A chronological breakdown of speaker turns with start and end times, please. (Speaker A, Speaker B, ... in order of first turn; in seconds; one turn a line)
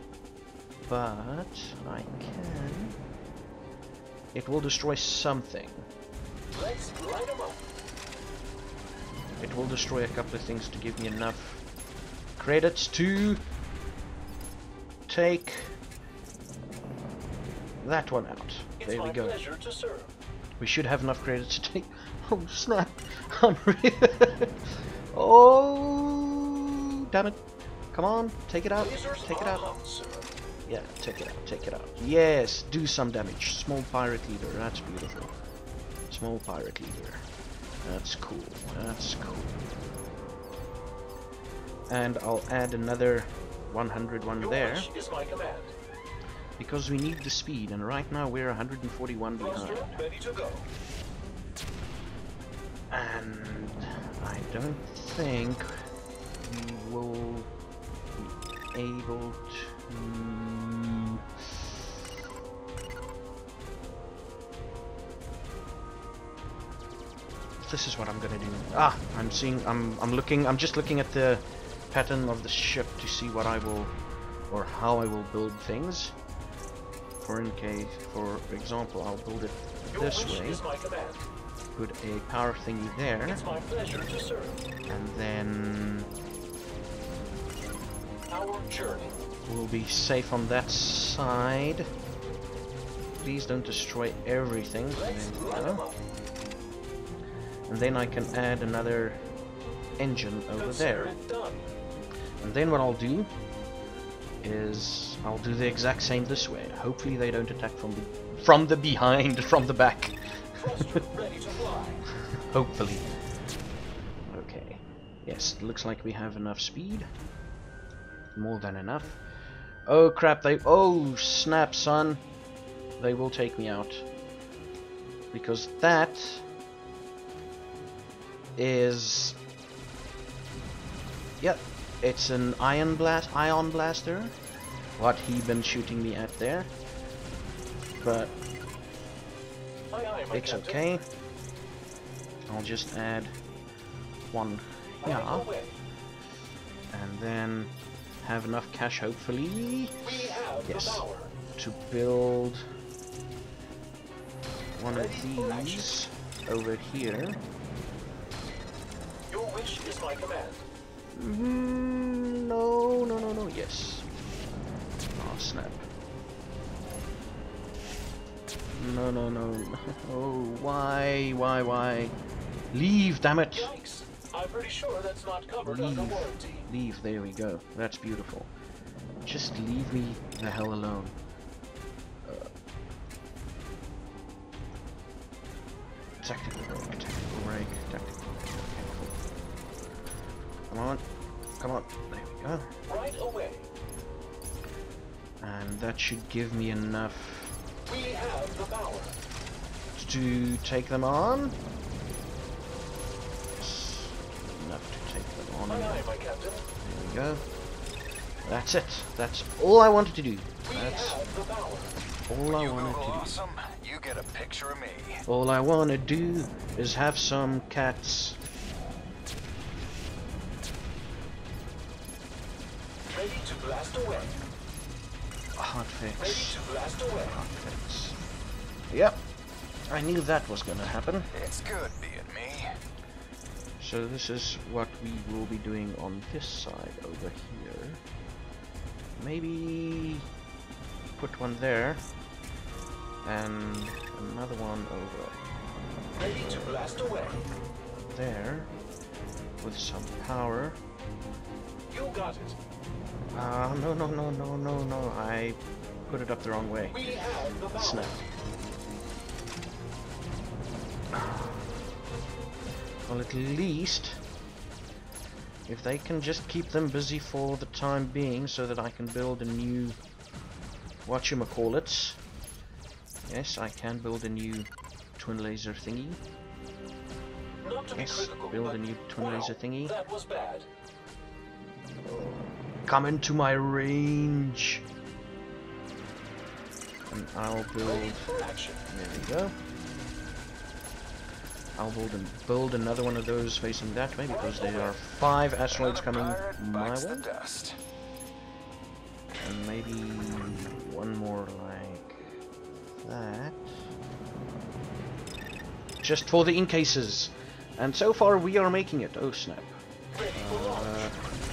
Speaker A: 0.8-3.0
Speaker A: 4.3-5.9
Speaker B: 6.5-7.6
Speaker A: 9.4-11.6
Speaker A: 12.4-13.4
Speaker A: 15.1-15.7
Speaker A: 17.8-19.4
Speaker B: 19.4-20.1
Speaker A: 20.6-27.4
Speaker A: 27.9-29.7
Speaker B: 29.0-30.2
Speaker A: 30.6-35.3
Speaker A: 36.1-37.3
Speaker A: 37.8-39.6
Speaker A: 41.9-44.9
Speaker B: 44.6-45.7
Speaker A: 46.6-50.1
Speaker B: 49.6-50.6
Speaker A: 52.9-55.7
Speaker A: 56.4-57.5
Speaker A: 58.1-61.7
Speaker A: 67.6-74.0
Speaker A: 74.5-76.2
Speaker A: 77.2-80.7
Speaker B: 80.3-81.1
Speaker A: 81.7-83.5
Speaker B: 83.4-84.5
Speaker A: 84.9-86.1
Speaker B: 88.3-89.1
Speaker A: 89.5-91.9
Speaker A: 93.2-95.9
Speaker B: 95.1-95.9
Speaker A: 97.7-99.2
Speaker A: 100.0-101.2
Speaker B: 101.0-101.5
Speaker A: 102.4-103.3
Speaker A: 104.4-111.1
Speaker B: 110.7-112.0
Speaker A: 112.4-113.1
Speaker A: 114.3-117.1
Speaker A: 118.3-119.2
Speaker A: 119.9-122.2
Speaker A: 123.0-124.0
Speaker A: 125.3-126.5
Speaker A: 128.6-129.4
Speaker A: 131.4-134.3
Speaker A: 135.0-136.7
Speaker A: 138.0-138.3
Speaker B: 139.9-140.4
Speaker A: 140.3-141.0
Speaker A: 142.5-143.3
Speaker A: 144.3-145.5
Speaker B: 145.3-145.7
Speaker A: 146.9-152.7
Speaker B: 150.2-151.2
Speaker A: 154.8-157.4
Speaker B: 155.2-155.7
Speaker B: 159.3-160.6
Speaker A: 161.1-164.1
Speaker A: 165.1-165.9
Speaker A: 168.7-172.1
Speaker A: 172.7-173.7
Speaker B: 173.7-176.6
Speaker A: 175.6-178.5
Speaker A: 179.2-181.2
Speaker A: 186.2-189.2
Speaker A: 190.7-191.0
Speaker A: 191.6-192.7
Speaker B: 192.9-193.6
Speaker A: 195.4-197.5
Speaker B: 197.9-199.1
Speaker A: 199.9-201.6
Speaker A: 203.6-206.1
Speaker B: 205.8-206.6
Speaker A: 206.8-207.4
Speaker A: 208.4-211.2
Speaker B: 211.0-211.9
Speaker A: 212.3-213.4
Speaker C: 212.5-215.2
Speaker A: 215.3-218.4
Speaker B: 223.2-224.2
Speaker A: 225.6-228.2
Speaker A: 228.9-229.2
Speaker A: 229.9-231.3
Speaker C: 231.3-232.7
Speaker A: 233.8-238.0
Speaker A: 239.2-240.3
Speaker A: 241.1-242.1
Speaker A: 243.2-245.4
Speaker A: 246.2-247.5
Speaker A: 248.0-248.7
Speaker A: 249.6-250.8
Speaker B: 251.9-252.5
Speaker A: 253.3-258.2
Speaker B: 257.1-258.0
Speaker A: 261.1-261.7
Speaker A: 263.1-264.2
Speaker A: 265.7-270.0
Speaker A: 271.0-272.2
Speaker A: 273.2-276.2
Speaker B: 277.6-278.6
Speaker A: 277.9-280.0
Speaker B: 280.0-280.6
Speaker A: 282.1-284.8
Speaker A: 287.1-289.6
Speaker B: 288.3-288.7
Speaker A: 291.8-297.3
Speaker C: 295.8-297.8
Speaker A: 299.4-302.2
Speaker A: 303.0-303.8
Speaker A: 306.0-309.8
Speaker A: 310.3-311.2